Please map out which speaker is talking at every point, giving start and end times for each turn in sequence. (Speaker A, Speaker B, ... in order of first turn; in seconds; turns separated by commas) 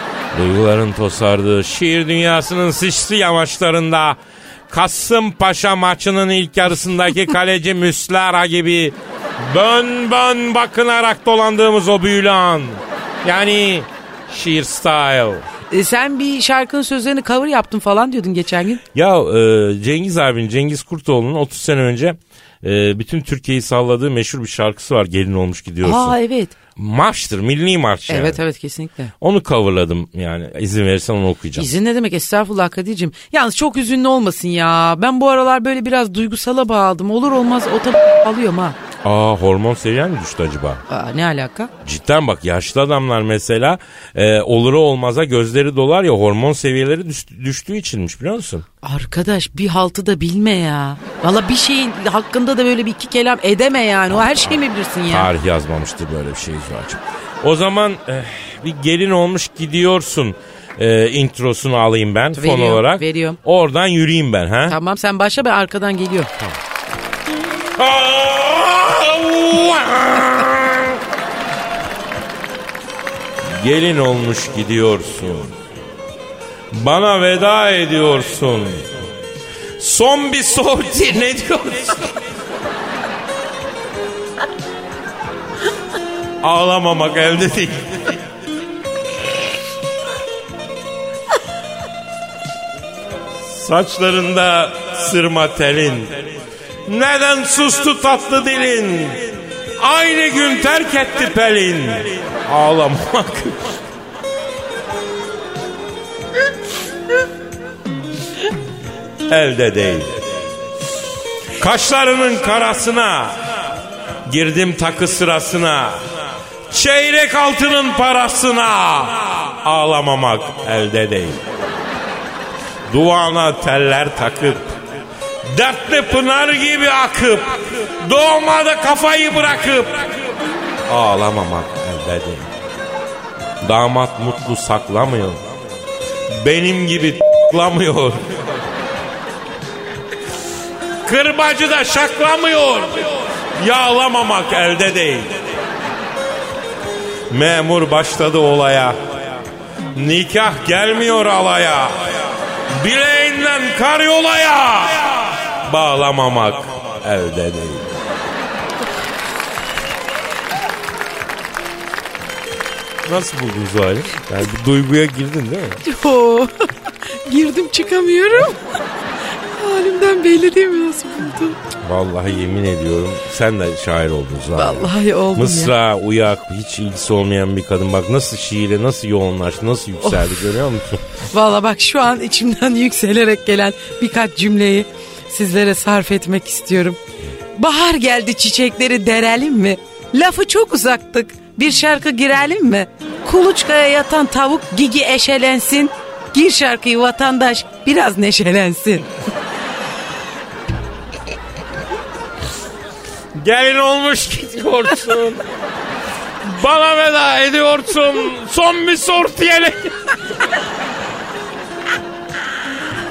Speaker A: 0.3-4.2, Speaker A: 4.7-15.5, Speaker B: 15.7-18.8, Speaker A: 18.9-26.1, Speaker B: 25.8-26.5, Speaker A: 26.8-28.4, Speaker B: 28.1-29.1, Speaker A: 29.2-31.7, Speaker B: 31.6-38.8, Speaker A: 39.0-40.8, Speaker B: 40.9-41.7, Speaker A: 41.8-48.6, Speaker B: 48.8-55.3, Speaker A: 54.1-64.8, Speaker B: 62.3-63.4, Speaker B: 64.7-66.3, Speaker A: 67.8-71.0, Speaker A: 73.6-75.5, Speaker A: 76.7-79.0, Speaker A: 79.8-82.2, Speaker A: 86.4-88.2, Speaker A: 93.4-96.3, Speaker A: 96.8-103.8, Speaker A: 109.3-110.2, Speaker A: 111.6-113.5, Speaker A: 114.3-116.1, Speaker A: 116.7-121.4, Speaker A: 122.9-124.8, Speaker A: 125.4-130.3, Speaker A: 130.9-132.5, Speaker A: 133.6-135.4, Speaker A: 136.4-138.6, Speaker A: 141.0-145.6, Speaker A: 147.3-149.4, Speaker A: 149.9-158.0, Speaker A: 163.0-165.8, Speaker B: 165.8-166.6, Speaker B: 167.2-168.6, Speaker B: 169.5-171.6, Speaker A: 171.8-181.0, Speaker B: 174.6-175.7, Speaker B: 181.3-187.0, Speaker B: 187.6-199.1, Speaker A: 203.3-205.4, Speaker A: 206.4-210.0